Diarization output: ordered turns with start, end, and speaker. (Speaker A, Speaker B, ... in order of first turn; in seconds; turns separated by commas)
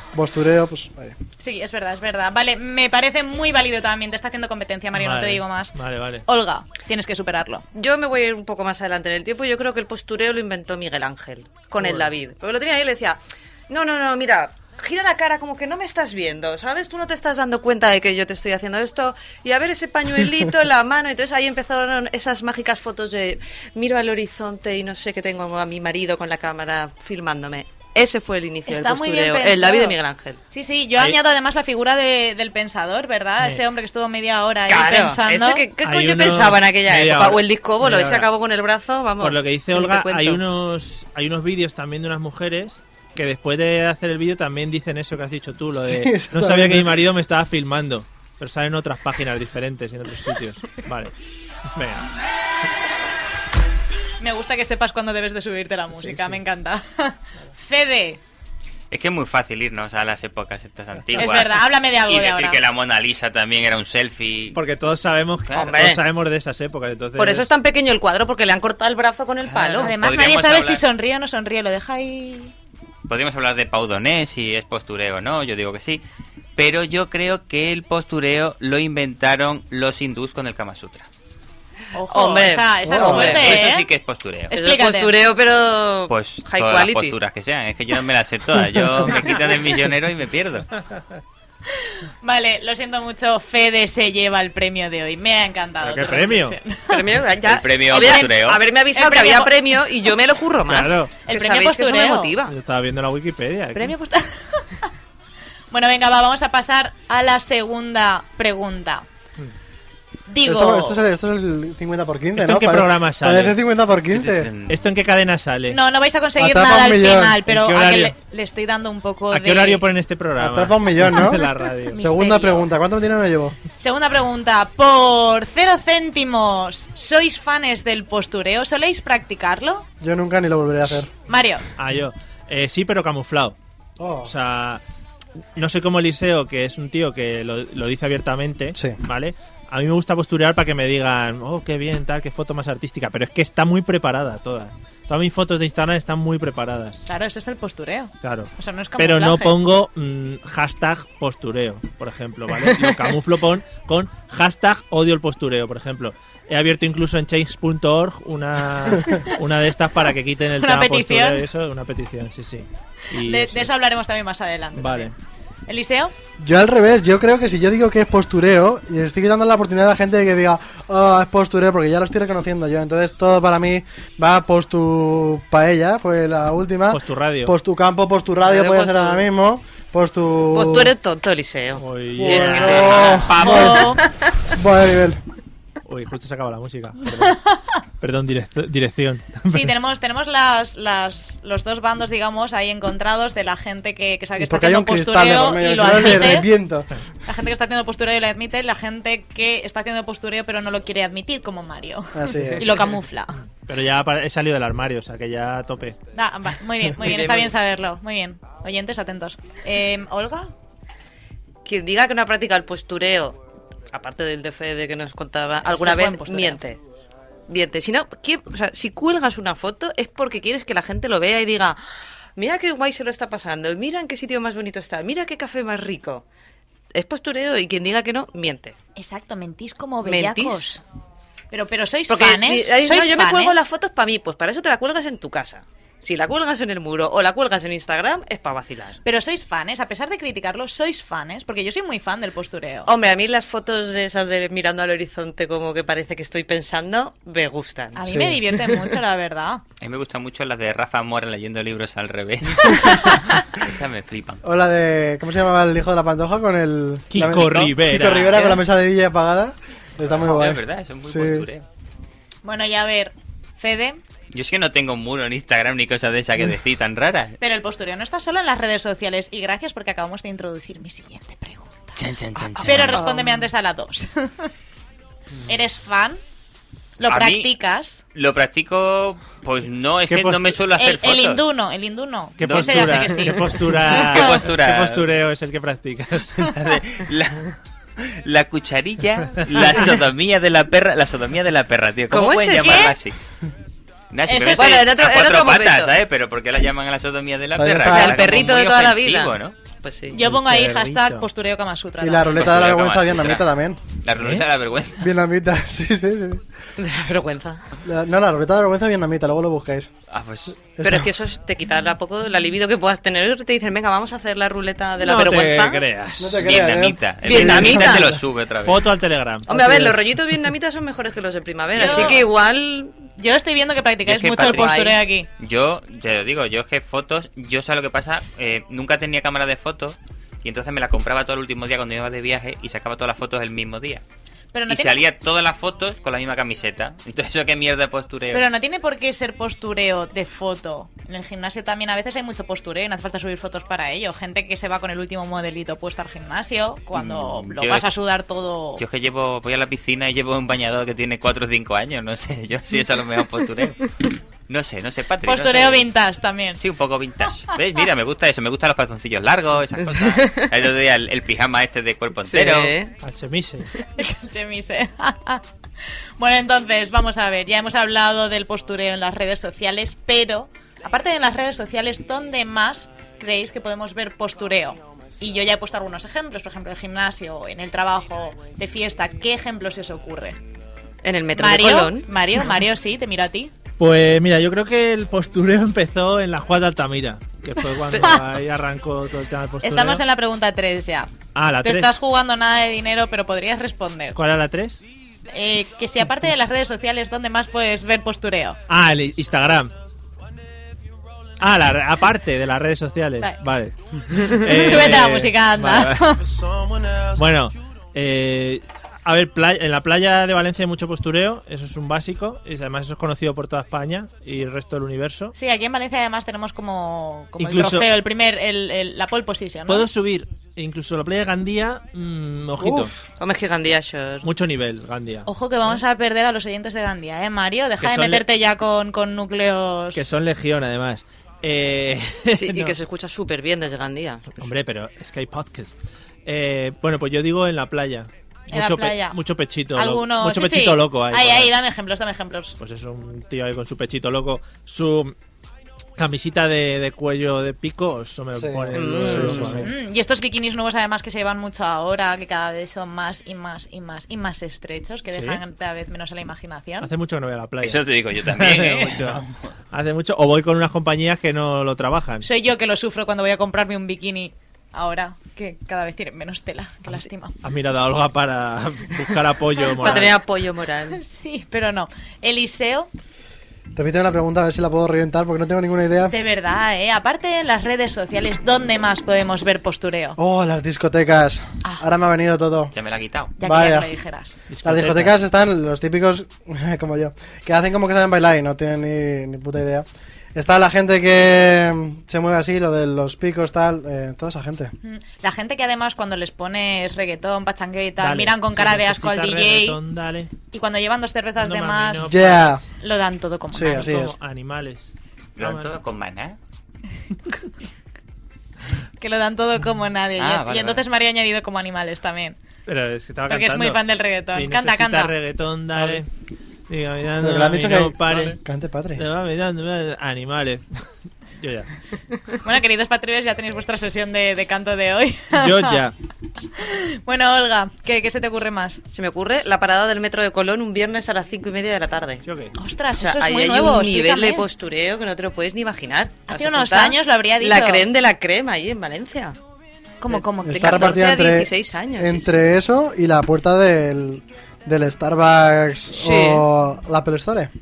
Speaker A: 0.1-1.1, Speaker B: 1.4-7.6, Speaker C: 4.9-6.2, Speaker D: 7.7-30.4, Speaker C: 11.8-12.1, Speaker B: 28.7-29.9, Speaker B: 30.5-35.6, Speaker D: 34.7-40.4, Speaker C: 35.8-38.3, Speaker C: 39.2-51.1, Speaker A: 45.8-46.9, Speaker C: 51.8-52.1, Speaker B: 54.2-58.2, Speaker E: 58.9-64.6, Speaker B: 61.2-62.6, Speaker C: 64.5-67.5, Speaker E: 65.5-65.9, Speaker D: 65.5-66.0, Speaker D: 67.2-69.9, Speaker E: 69.4-70.8, Speaker B: 69.8-72.5, Speaker E: 73.1-76.0, Speaker E: 76.5-81.1, Speaker B: 81.9-83.9, Speaker D: 82.1-83.7, Speaker A: 82.8-83.4, Speaker E: 83.0-84.5, Speaker B: 84.5-85.1, Speaker D: 84.5-87.2, Speaker E: 86.1-90.7, Speaker B: 91.8-97.0, Speaker C: 95.8-96.6, Speaker D: 96.9-102.5, Speaker E: 97.4-98.6, Speaker B: 97.9-98.3, Speaker B: 98.9-99.5, Speaker C: 100.7-101.1, Speaker B: 101.2-102.3, Speaker C: 102.5-103.9, Speaker B: 103.7-104.9, Speaker B: 105.7-109.0, Speaker B: 110.3-111.0, Speaker A: 110.4-114.5, Speaker C: 112.3-113.6, Speaker E: 114.1-114.8, Speaker C: 114.7-115.8, Speaker B: 115.7-119.8, Speaker A: 116.4-117.4, Speaker C: 117.5-118.1, Speaker C: 119.3-122.0, Speaker A: 120.4-123.5, Speaker B: 121.9-122.7, Speaker B: 123.8-129.8, Speaker A: 130.0-131.1, Speaker B: 131.3-131.6, Speaker C: 131.8-133.5, Speaker A: 134.0-134.3, Speaker C: 134.2-134.8, Speaker C: 135.6-147.0, Speaker B: 147.1-149.5, Speaker C: 148.2-163.7, Speaker B: 160.6-161.4, Speaker B: 163.2-165.1, Speaker C: 164.8-165.1, Speaker B: 165.7-166.1, Speaker A: 166.4-180.9, Speaker C: 176.9-177.5, Speaker D: 178.4-179.2, Speaker D: 180.5-183.6, Speaker C: 181.8-183.2, Speaker A: 182.2-184.0, Speaker E: 182.7-183.9, Speaker B: 183.3-184.0, Speaker A: 184.5-185.2, Speaker C: 185.9-187.4, Speaker C: 188.0-189.7, Speaker B: 189.5-196.5, Speaker A: 194.4-196.9, Speaker B: 197.2-203.4, Speaker A: 202.1-202.7, Speaker C: 203.6-206.0, Speaker B: 206.1-210.5, Speaker D: 207.0-207.5, Speaker D: 211.6-213.4, Speaker D: 213.9-216.8, Speaker B: 215.7-216.6, Speaker D: 217.5-221.8, Speaker D: 222.3-226.2, Speaker D: 226.9-228.8, Speaker B: 228.9-230.8, Speaker D: 230.0-230.7, Speaker B: 231.5-233.6, Speaker D: 232.1-239.0, Speaker B: 239.0-242.9, Speaker D: 242.8-248.0, Speaker B: 247.9-249.6, Speaker A: 248.0-248.4, Speaker E: 249.8-254.4, Speaker A: 254.4-261.5, Speaker C: 257.1-258.4, Speaker E: 260.1-261.6, Speaker B: 262.4-264.0, Speaker E: 264.3-267.4, Speaker B: 267.4-271.9, Speaker E: 272.1-273.0, Speaker B: 272.6-274.5, Speaker B: 275.4-276.2, Speaker B: 277.0-278.0, Speaker E: 277.1-277.5, Speaker E: 278.1-281.4, Speaker C: 280.1-280.6, Speaker B: 280.8-284.3, Speaker C: 282.4-286.5, Speaker E: 282.4-283.3, Speaker E: 283.9-285.1, Speaker E: 286.4-293.1, Speaker D: 292.1-292.9, Speaker B: 292.6-292.9, Speaker E: 294.1-299.5, Speaker B: 294.3-294.8, Speaker D: 294.5-295.9, Speaker A: 297.5-298.4, Speaker D: 297.8-300.2, Speaker B: 300.1-302.5, Speaker C: 300.2-301.3, Speaker A: 302.0-303.8, Speaker E: 302.3-303.5, Speaker E: 304.0-305.1, Speaker C: 304.2-304.4, Speaker A: 305.0-306.4, Speaker D: 306.8-307.6, Speaker A: 307.8-309.9, Speaker E: 310.1-310.6, Speaker A: 310.8-311.1, Speaker D: 310.8-315.8, Speaker C: 315.0-316.4, Speaker A: 316.2-318.2, Speaker E: 316.4-318.9, Speaker D: 317.2-318.1, Speaker C: 318.6-320.0, Speaker D: 319.5-322.9, Speaker A: 319.5-319.9, Speaker B: 321.7-322.2, Speaker E: 321.8-322.2, Speaker B: 323.2-325.3, Speaker E: 324.1-334.0, Speaker D: 324.3-325.0, Speaker B: 334.5-335.0, Speaker E: 334.7-338.5, Speaker B: 338.3-348.8, Speaker E: 346.9-347.9, Speaker E: 348.8-355.9, Speaker B: 355.2-356.6, Speaker E: 356.6-362.8, Speaker D: 359.9-360.4, Speaker D: 362.2-362.9, Speaker C: 363.0-363.7, Speaker B: 363.9-365.4, Speaker B: 366.2-380.4, Speaker D: 381.0-382.1, Speaker B: 381.4-383.5, Speaker C: 383.8-390.0, Speaker B: 387.9-388.2, Speaker B: 389.6-391.1, Speaker C: 391.3-391.9, Speaker B: 391.6-394.2, Speaker C: 394.1-394.8, Speaker B: 395.3-398.6, Speaker C: 398.7-399.7, Speaker C: 401.4-406.2, Speaker B: 404.3-406.2, Speaker C: 407.1-415.3, Speaker B: 415.3-419.9, Speaker C: 417.4-417.9, Speaker C: 419.7-422.9, Speaker A: 422.6-422.9, Speaker D: 423.2-424.3, Speaker C: 424.2-425.3, Speaker B: 425.2-430.1, Speaker C: 427.8-428.2, Speaker C: 429.9-432.8, Speaker D: 432.4-434.5, Speaker C: 434.4-441.5, Speaker B: 438.5-439.2, Speaker B: 439.7-442.6, Speaker C: 442.6-445.1, Speaker C: 446.0-449.7, Speaker A: 448.4-449.6, Speaker D: 448.7-449.6, Speaker B: 449.6-456.9, Speaker C: 455.1-455.4, Speaker C: 456.8-462.2, Speaker E: 457.6-459.3, Speaker B: 462.2-467.3, Speaker C: 467.4-470.2, Speaker D: 469.8-471.0, Speaker B: 469.8-470.1, Speaker B: 470.9-472.9, Speaker A: 473.7-476.1, Speaker B: 476.1-480.2, Speaker A: 480.2-482.7, Speaker E: 482.7-483.3, Speaker B: 483.4-484.3, Speaker A: 483.4-483.9, Speaker C: 484.5-485.1, Speaker A: 484.6-494.7, Speaker B: 494.8-499.8, Speaker C: 498.0-500.3, Speaker B: 500.5-502.1, Speaker C: 501.4-502.6, Speaker A: 502.1-502.6, Speaker B: 502.8-503.9, Speaker A: 503.5-504.1, Speaker C: 503.7-505.8, Speaker E: 505.4-506.4, Speaker B: 509.0-512.4, Speaker E: 510.2-510.8, Speaker C: 512.6-516.1, Speaker B: 513.3-515.1, Speaker C: 516.7-518.4, Speaker A: 517.2-519.0, Speaker C: 519.0-520.6, Speaker C: 521.4-521.7, Speaker B: 522.4-525.8, Speaker C: 525.3-525.9, Speaker B: 526.6-528.8, Speaker D: 528.9-532.2, Speaker C: 532.2-532.5, Speaker B: 532.6-534.4, Speaker D: 533.0-539.4, Speaker B: 536.3-537.8, Speaker B: 540.0-541.0, Speaker D: 540.1-542.3, Speaker A: 540.4-547.5, Speaker D: 545.9-546.4